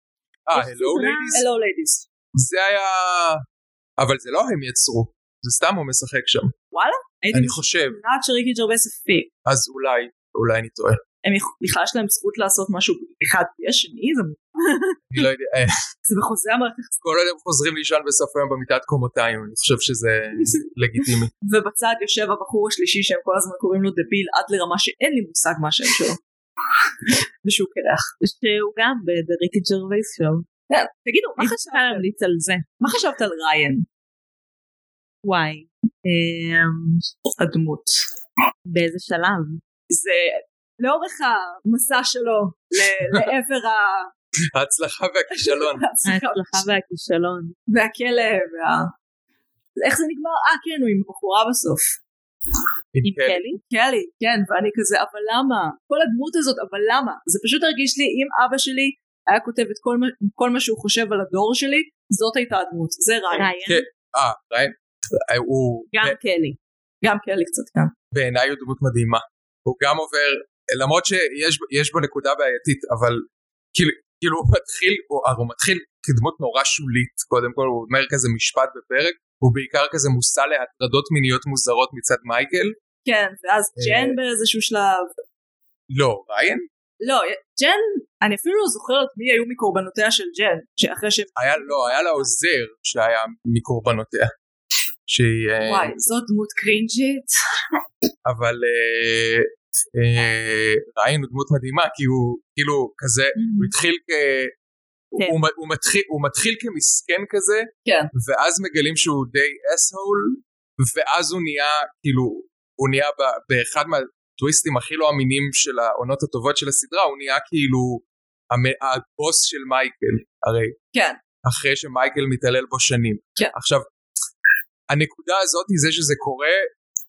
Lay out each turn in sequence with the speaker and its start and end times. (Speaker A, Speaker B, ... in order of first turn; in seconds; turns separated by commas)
Speaker A: 0.5-1.4, Speaker B: 0.6-1.4, Speaker C: 0.6-2.1, Speaker A: 2.3-3.5, Speaker A: 4.0-6.5, Speaker C: 6.7-9.3, Speaker A: 7.3-8.0, Speaker A: 9.4-11.0, Speaker C: 11.2-15.0, Speaker A: 15.1-15.7, Speaker C: 16.1-17.0, Speaker A: 17.0-21.3, Speaker C: 21.4-26.2, Speaker C: 27.1-28.1, Speaker B: 28.2-30.5, Speaker C: 30.7-32.1, Speaker B: 31.4-32.7, Speaker C: 32.8-33.9, Speaker B: 35.2-37.1, Speaker C: 37.4-37.9, Speaker B: 38.7-39.6, Speaker C: 39.9-44.1, Speaker A: 44.5-45.8, Speaker C: 45.4-46.7, Speaker B: 46.1-47.5, Speaker C: 47.7-48.9, Speaker C: 49.8-52.0, Speaker A: 52.9-53.4, Speaker B: 53.0-53.6, Speaker C: 53.6-63.5, Speaker B: 63.3-63.9, Speaker A: 63.7-66.2, Speaker B: 65.9-66.6, Speaker C: 67.0-67.9, Speaker A: 68.1-82.8, Speaker C: 83.0-85.1, Speaker A: 83.8-84.2, Speaker A: 85.9-86.7, Speaker C: 87.0-92.3, Speaker A: 91.4-94.3, Speaker A: 95.1-95.9, Speaker C: 95.6-97.3, Speaker A: 98.2-104.5, Speaker A: 105.1-120.8, Speaker C: 107.8-108.1, Speaker C: 120.9-121.2, Speaker A: 121.4-123.9, Speaker A: 124.9-126.7